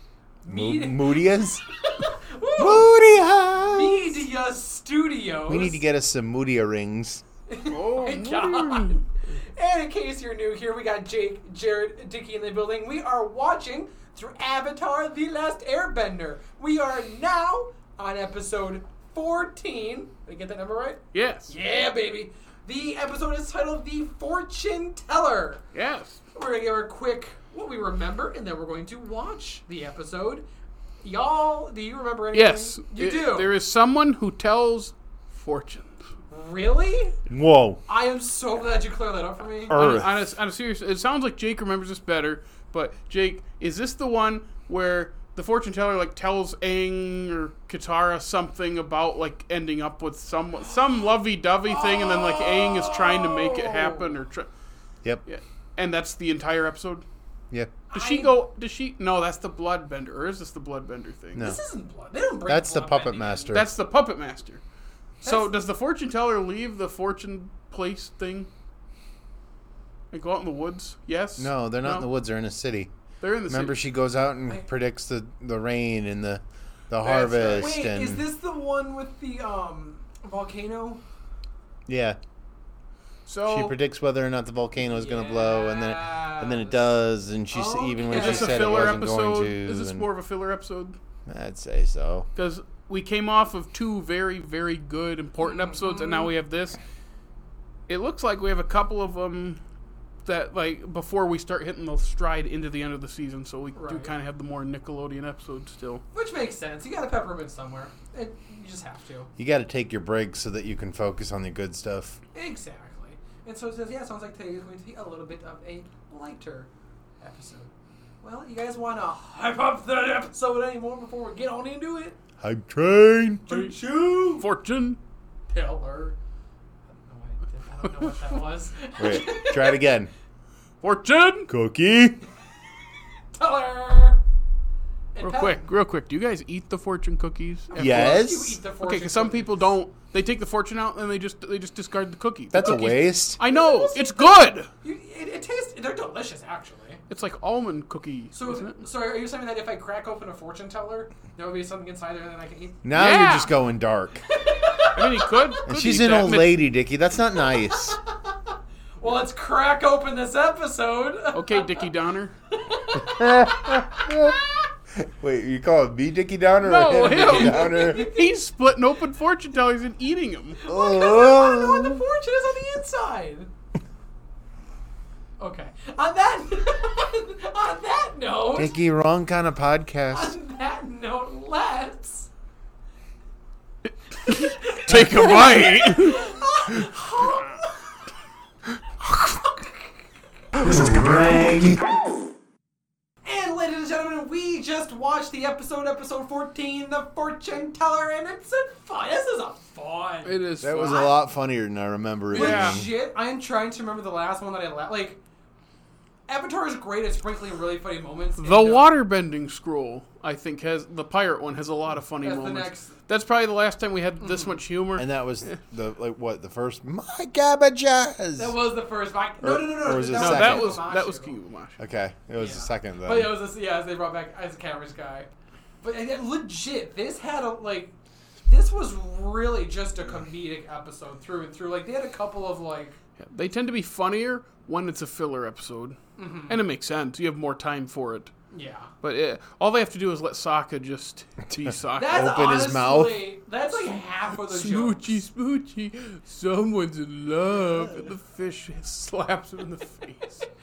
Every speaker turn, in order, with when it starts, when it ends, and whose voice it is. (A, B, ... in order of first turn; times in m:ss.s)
0:00.4-0:02.9 A
0:00.5-0:01.6 B
0:02.6-0:04.2 B
0:03.6-0:05.8 A
0:05.5-0:07.2 B
0:07.5-0:25.6 A
0:07.7-0:09.0 C
0:21.1-0:21.5 C
0:25.7-0:26.2 C
0:26.3-0:30.4 A
0:31.0-0:33.5 A
0:32.3-0:35.9 C
0:36.3-0:37.2 A
0:37.3-0:37.8 B
0:37.9-0:39.8 A
0:39.7-0:40.2 B
0:39.7-0:54.5 C
0:51.6-0:54.2 A
0:55.2-0:57.0 C
0:57.5-0:57.8 B
0:57.9-0:58.4 A
0:57.9-1:01.5 C
1:01.4-1:03.6 A
1:02.5-1:03.7 B
1:03.5-1:04.6 C
1:05.2-1:08.5 C
1:05.2-1:05.6 A
1:10.1-1:12.1 C
1:11.4-1:12.9 B
1:13.2-1:13.8 C
1:13.5-1:18.3 B
1:17.0-1:17.7 C
1:17.5-1:21.0 A
1:21.9-1:22.2 B
1:23.2-1:23.7 C
1:23.4-1:30.1 B
1:24.8-1:26.9 A
1:27.5-1:29.0 A
1:28.1-1:31.0 C
1:31.3-1:32.3 B
1:32.4-1:36.8 C
1:35.4-1:36.3 A
1:37.9-1:39.6 C
1:40.2-1:46.0 C
1:43.8-1:44.1 A
1:46.1-1:49.3 A
1:49.4-1:52.2 B
1:52.3-1:56.7 A
1:57.2-2:02.2 A
2:02.4-2:03.6 B
2:03.5-2:04.5 A
2:04.3-2:05.0 C
2:05.5-2:06.2 A
2:06.9-2:09.8 A
2:09.0-2:10.1 B
2:10.8-2:11.5 C
2:11.5-2:12.2 B
2:13.3-2:14.2 A
2:15.1-2:15.7 A
2:15.2-2:18.2 C
2:17.7-2:19.7 A
2:17.7-2:18.6 B
2:18.8-2:24.7 C
2:22.5-2:23.4 B
2:23.4-2:27.0 A
2:27.1-2:28.8 C
2:28.3-2:32.9 A
2:32.8-2:34.2 B
2:32.9-2:33.5 C
2:34.3-2:35.6 A
2:34.9-2:36.6 C
2:35.6-2:38.0 B
2:37.5-2:38.3 A
2:39.0-2:41.9 A
2:41.3-2:42.3 C
2:42.5-2:44.4 A
2:43.0-2:44.4 B
2:45.0-2:48.1 B
2:46.6-2:50.6 C
2:47.1-2:48.4 A
2:50.6-2:53.5 A
2:50.7-2:52.0 B
2:55.4-2:58.7 A
2:58.5-3:00.3 B
3:00.1-3:02.3 A
3:04.2-3:07.9 A
3:04.2-3:06.3 C
3:09.1-3:09.9 A
3:10.5-3:11.8 B
3:13.2-3:21.1 A
3:20.2-3:21.0 C
3:20.6-3:22.9 B
3:22.3-3:22.8 C
3:22.3-3:25.2 A
3:26.3-3:28.9 A
3:28.4-3:35.5 C
3:32.2-3:33.0 A
3:34.2-3:34.6 A
3:35.0-3:38.6 B
3:38.4-3:41.3 A
3:39.4-3:40.8 B
3:40.1-3:41.8 C
3:41.8-3:43.4 B
3:42.4-3:45.3 A
3:45.8-3:47.9 A
3:48.4-3:53.0 A
3:53.2-3:58.3 C
3:56.2-3:56.6 A
3:58.5-3:58.9 A
3:59.0-4:02.3 C
4:01.6-4:03.2 B
4:01.9-4:05.2 A
4:03.9-4:10.4 C